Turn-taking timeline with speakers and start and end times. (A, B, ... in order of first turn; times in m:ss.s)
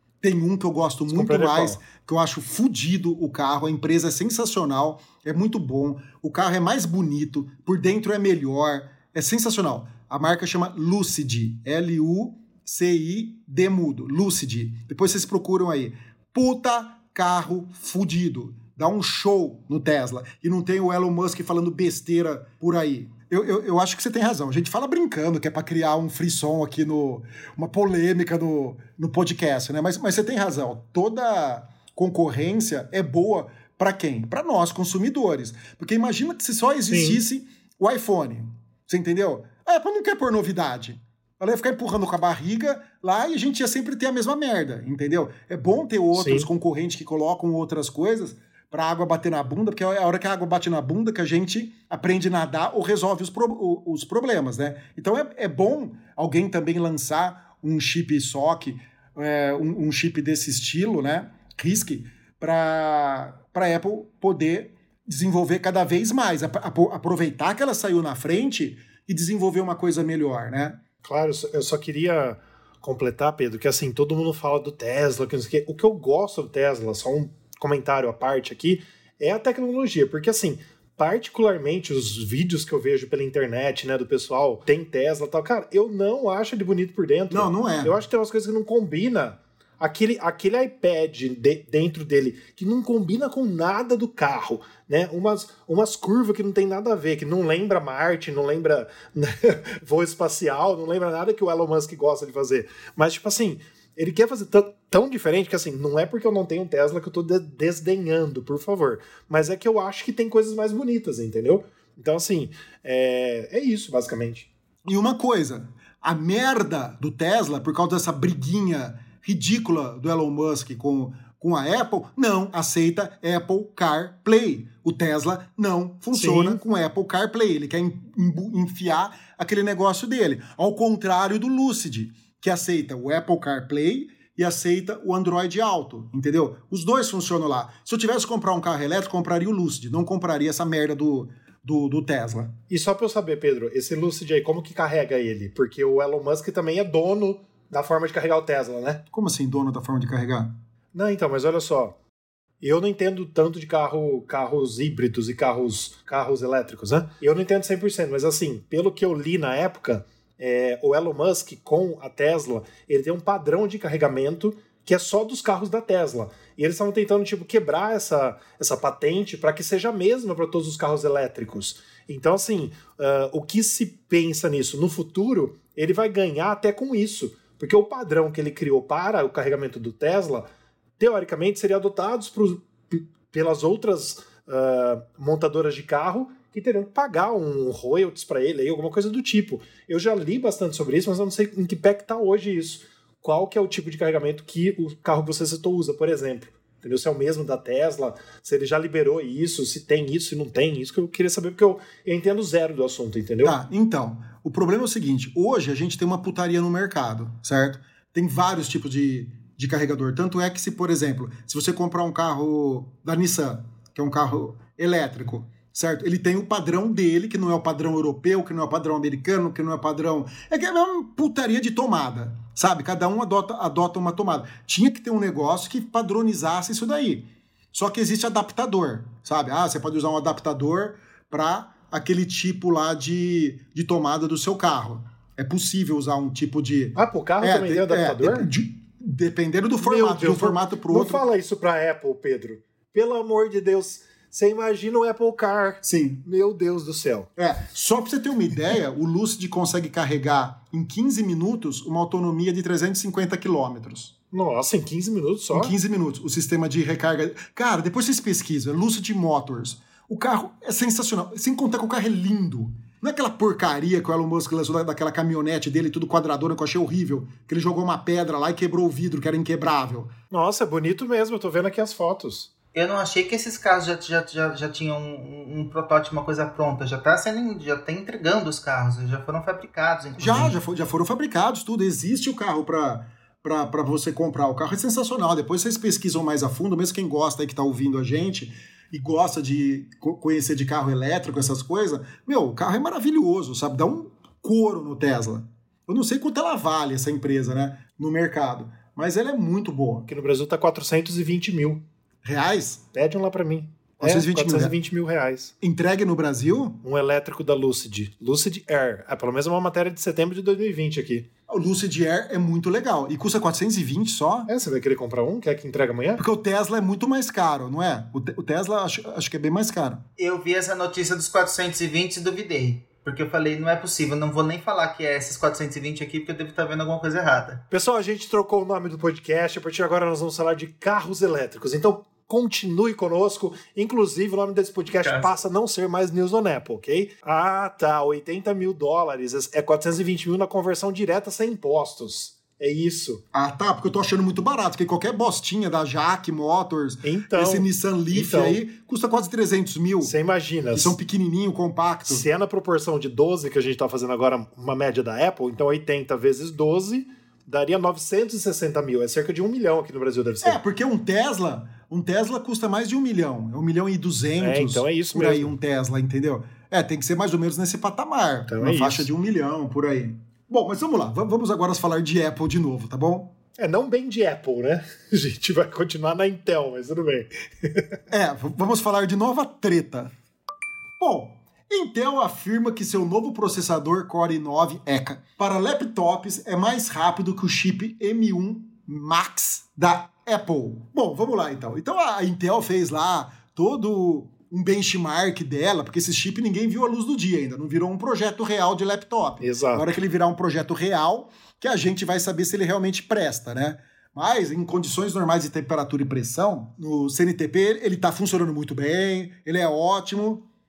0:00.2-1:10.8 A
0:01.1-0:01.8 B
0:36.9-0:37.2 B
0:46.1-0:46.5 B
1:11.0-1:54.5 B
1:27.3-1:28.0 A
1:54.8-2:22.6 A
2:06.1-2:06.6 B
2:22.7-2:29.0 B
2:29.1-2:30.5 A
2:30.9-2:32.0 B
2:32.6-3:23.6 B
3:23.4-4:01.2 A
3:57.0-3:58.5 B
3:59.8-4:07.3 B
4:05.8-4:06.2 A
4:07.4-4:14.1 A
4:14.3-4:15.7 B
4:15.5-4:30.1 A
4:30.3-4:32.5 B
4:32.7-4:40.6 C
4:40.2-5:00.1 A
5:00.1-5:01.8 B
5:02.2-5:02.8 A
5:02.9-5:05.5 B
5:04.0-5:04.8 A
5:05.6-5:06.8 A
5:06.8-5:11.3 B
5:11.5-5:14.5 A
5:14.5-5:16.2 B
5:16.2-5:20.0 A
5:20.2-5:27.6 C
5:27.7-5:43.2 B
5:34.9-5:35.4 C
5:43.3-5:50.1 A
5:47.0-5:48.6 B
5:50.0-5:51.0 B
5:50.7-5:52.2 A
5:52.1-6:00.6 B
6:00.4-6:13.3 A
6:04.4-6:05.5 B
6:08.5-6:09.1 B
6:13.6-6:18.0 B
6:18.1-6:20.1 A
6:21.0-6:50.5 A
6:39.4-6:40.0 B